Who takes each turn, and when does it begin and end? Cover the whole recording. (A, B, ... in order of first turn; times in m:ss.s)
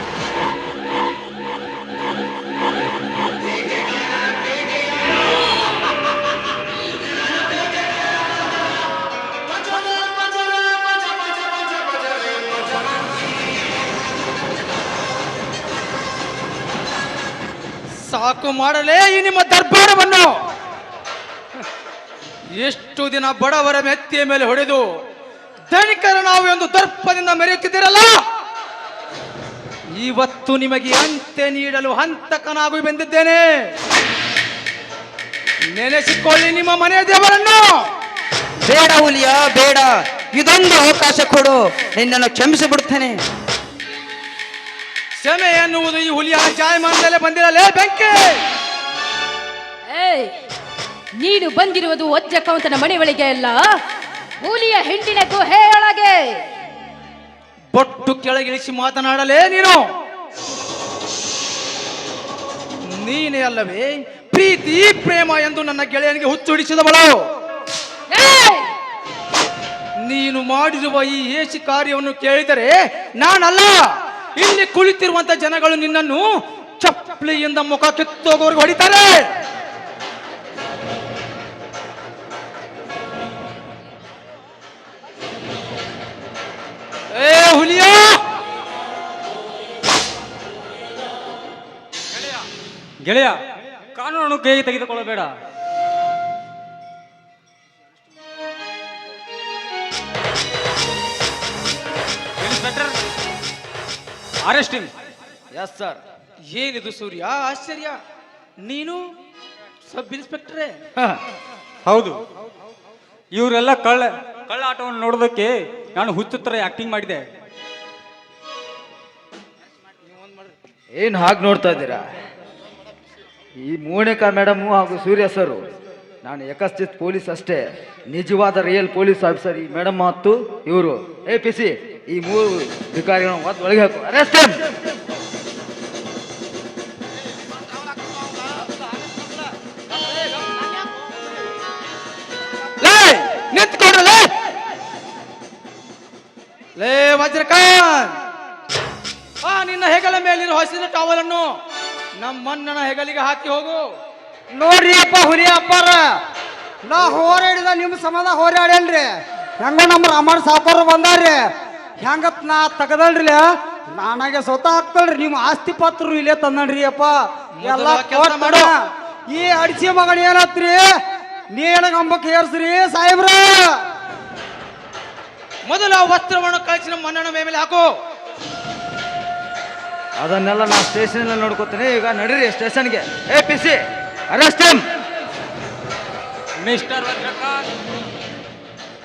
0:18.0-0:20.4 A
0:22.5-0:24.8 A
0:25.7-0:28.2 A
0:29.9-0:33.7 A
0:35.7-0:37.8 A
0:38.6-0:43.2 B
0:45.2-0:48.4 A
0:49.9-0:50.3 C
0:51.1-0:53.8 C
0:54.4-0:56.4 C
0:57.7-0:59.8 A
1:02.9-1:07.2 A
1:08.1-1:08.7 C
1:10.0-1:16.3 A
1:16.8-1:19.3 A
1:27.1-1:28.2 A
1:32.1-1:32.4 D
1:33.0-1:33.4 D
1:33.9-1:35.3 D
1:42.4-1:42.9 D
1:44.4-1:44.9 D
1:45.5-1:46.0 E
1:46.5-1:48.0 A
1:48.6-1:49.0 A
1:49.8-1:50.8 A
1:51.8-1:52.2 D
1:53.3-1:57.2 D
2:01.0-2:02.0 E
2:03.6-2:05.6 E
2:06.2-2:14.6 E
2:22.8-2:24.3 A
2:26.8-2:28.2 A
2:29.4-2:31.6 A
2:32.2-2:33.9 A
2:34.5-2:36.2 F
2:36.8-2:41.5 F
2:42.0-2:50.9 F
2:47.6-2:48.7 A
2:51.5-2:53.8 F
2:55.6-2:57.9 A
3:00.2-3:04.8 E
3:06.6-3:07.6 D